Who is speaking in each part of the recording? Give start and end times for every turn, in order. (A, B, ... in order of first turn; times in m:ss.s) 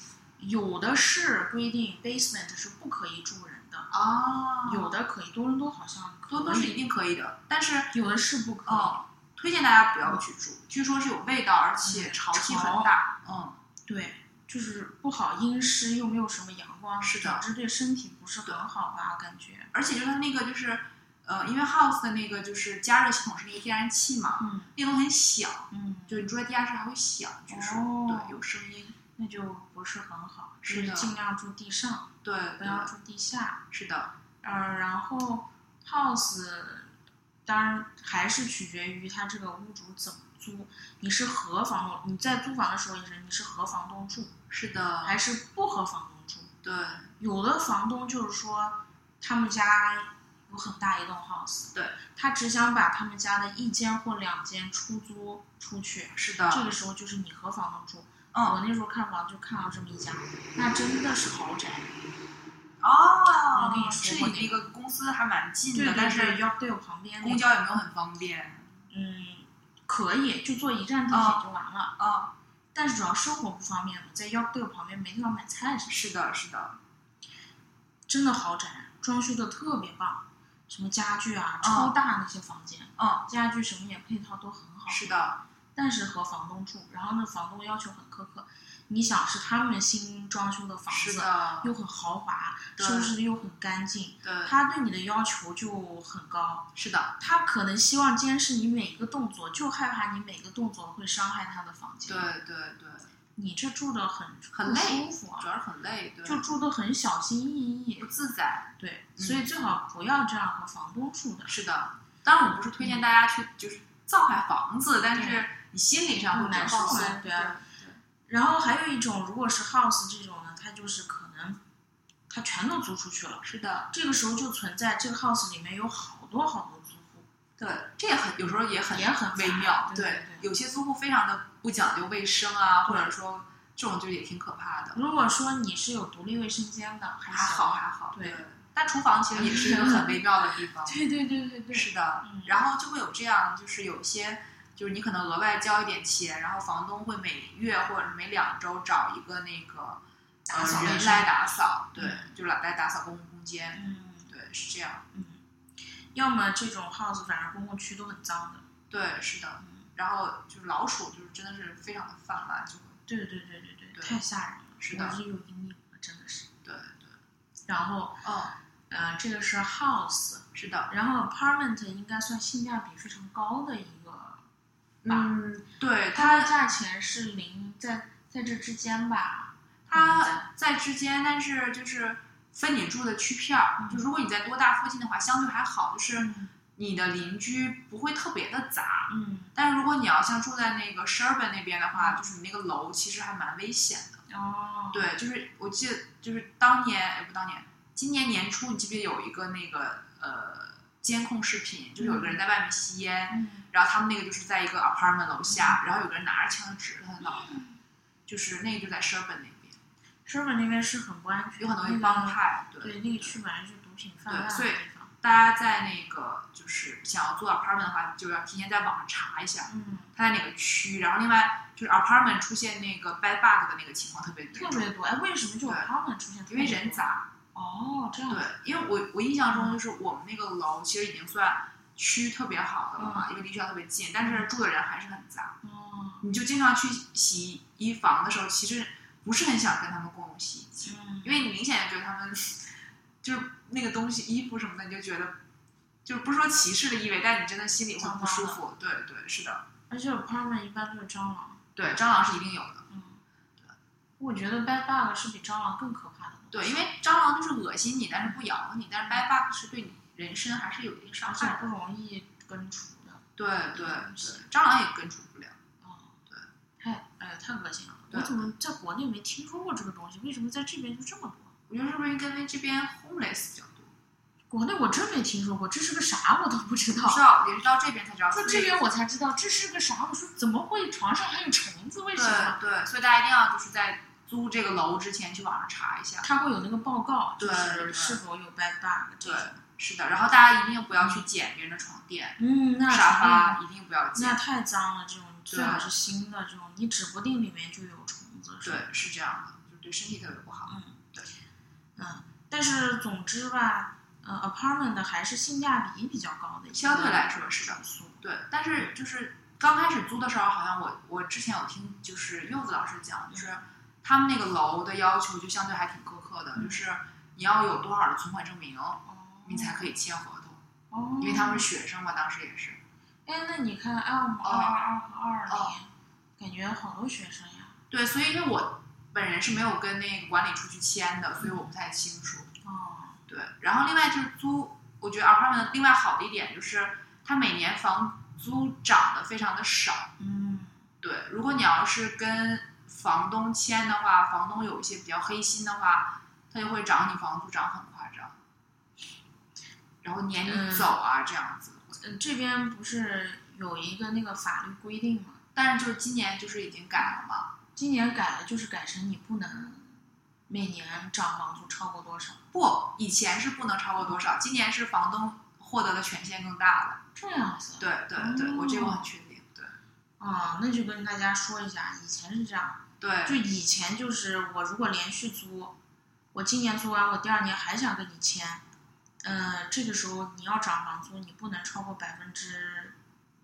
0:00.4-0:03.9 A
0:03.9-0:04.9 B
0:04.6-0:06.8 A
0:06.3-0:07.9 B
0:07.9-0:09.0 A
0:08.6-0:13.6 B
0:11.8-0:12.9 A
0:13.9-0:19.7 A
0:17.0-0:17.4 B
0:19.7-0:29.0 B
0:24.4-0:24.7 A
0:25.7-0:26.3 A
0:27.5-0:28.4 A
0:29.1-0:33.6 A
0:30.6-0:31.1 B
0:32.2-0:32.9 B
0:33.7-0:34.1 B
0:34.4-0:36.9 A
0:37.4-0:44.3 A
0:44.5-0:45.2 B
0:45.0-0:46.5 A
0:46.6-0:47.1 B
0:47.2-1:01.9 A
0:56.1-0:56.7 B
0:58.3-0:58.6 B
1:02.8-1:06.4 B
1:03.5-1:04.6 A
1:05.7-1:07.5 A
1:07.2-1:08.7 B
1:08.9-1:11.9 A
1:11.1-1:11.4 B
1:12.0-1:12.3 B
1:12.7-1:16.0 A
1:15.9-1:16.8 B
1:18.1-1:25.1 A
1:21.6-1:21.9 B
1:23.0-1:23.2 B
1:24.9-1:25.4 B
1:25.7-1:42.3 A
1:30.9-1:31.7 B
1:32.8-1:33.1 B
1:34.2-1:34.5 B
1:36.7-1:37.1 B
1:42.1-1:43.1 B
1:43.4-1:45.5 A
1:44.5-1:46.4 B
1:46.2-1:48.1 A
1:48.0-1:49.4 B
1:48.8-1:51.5 A
1:51.5-1:58.0 B
1:55.1-1:55.4 A
1:56.3-1:57.6 A
1:58.3-2:01.6 A
2:02.3-2:07.2 A
2:03.4-2:03.9 B
2:07.6-2:15.0 B
2:08.9-2:10.5 A
2:14.9-2:18.4 A
2:17.3-2:21.0 B
2:19.3-2:22.6 A
2:21.7-2:35.0 B
2:30.5-2:31.3 A
2:32.0-2:32.4 A
2:33.7-2:34.3 A
2:35.1-2:35.4 A
2:36.1-2:38.6 A
2:38.9-2:43.0 B
2:39.6-2:39.9 A
2:43.1-2:46.5 A
2:44.8-2:45.2 B
2:46.6-2:47.2 B
2:47.7-2:48.2 A
2:48.2-2:48.5 B
2:48.9-2:54.4 A
2:50.5-2:50.9 B
2:55.0-2:56.5 B
2:56.1-3:00.5 A
2:59.9-3:14.2 B
3:03.8-3:04.0 A
3:06.2-3:06.5 A
3:09.1-3:09.5 A
3:11.9-3:12.2 A
3:14.3-3:15.1 A
3:14.9-3:27.6 B
3:22.0-3:22.4 A
3:23.3-3:23.7 A
3:25.5-3:25.8 A
3:27.2-3:27.8 A
3:28.3-3:29.8 B
3:30.2-3:35.1 A
3:31.6-3:33.4 B
3:34.2-3:44.9 B
3:39.7-3:40.1 A
3:44.5-3:48.5 A
3:46.5-3:47.3 B
3:48.3-3:55.6 B
3:49.5-3:49.8 A
3:53.0-3:53.3 A
3:54.2-3:54.5 A
3:55.6-3:56.2 A
3:56.2-4:02.7 B
4:00.8-4:01.5 A
4:03.2-4:05.4 B
4:06.0-4:09.6 B
4:08.0-4:08.6 A
4:09.9-4:11.6 A
4:11.8-4:12.8 B
4:12.9-4:13.2 A
4:14.2-4:16.8 A
4:16.5-4:21.7 B
4:21.2-4:24.4 A
4:23.4-4:25.6 B
4:25.8-4:26.2 A
4:26.8-4:31.5 A
4:28.1-4:28.5 B
4:31.7-4:33.9 B
4:34.5-4:37.2 A
4:37.0-4:38.7 B
4:38.3-4:42.6 A
4:42.1-4:46.2 B
4:46.2-4:49.6 A
4:47.4-4:48.2 B
4:49.2-4:52.4 B
4:51.0-4:51.2 A
4:52.4-4:53.6 A
4:52.9-4:54.4 B
4:54.1-4:58.8 A
4:55.5-4:55.9 B
4:58.6-5:01.3 B
5:00.7-5:01.0 A
5:02.0-5:08.2 A
5:06.7-5:20.6 B
5:16.5-5:16.8 A
5:19.0-5:19.9 A
5:20.9-5:21.7 A
5:21.2-5:22.8 B
5:23.2-5:27.8 A
5:24.4-5:24.8 B
5:25.5-5:25.7 B
5:27.9-5:32.5 B
5:32.6-5:33.2 A
5:33.3-5:40.1 B
5:40.2-5:40.8 A
5:41.0-5:48.4 B
5:50.0-5:52.0 B
5:50.4-5:51.0 A
5:52.0-5:55.4 A
5:55.5-5:57.5 B
5:57.7-6:02.4 A
6:02.5-6:07.0 B
6:07.2-6:09.1 A
6:07.8-6:09.8 B
6:10.2-6:15.7 A
6:13.0-6:13.4 B
6:16.3-6:18.6 A
6:19.2-6:22.9 A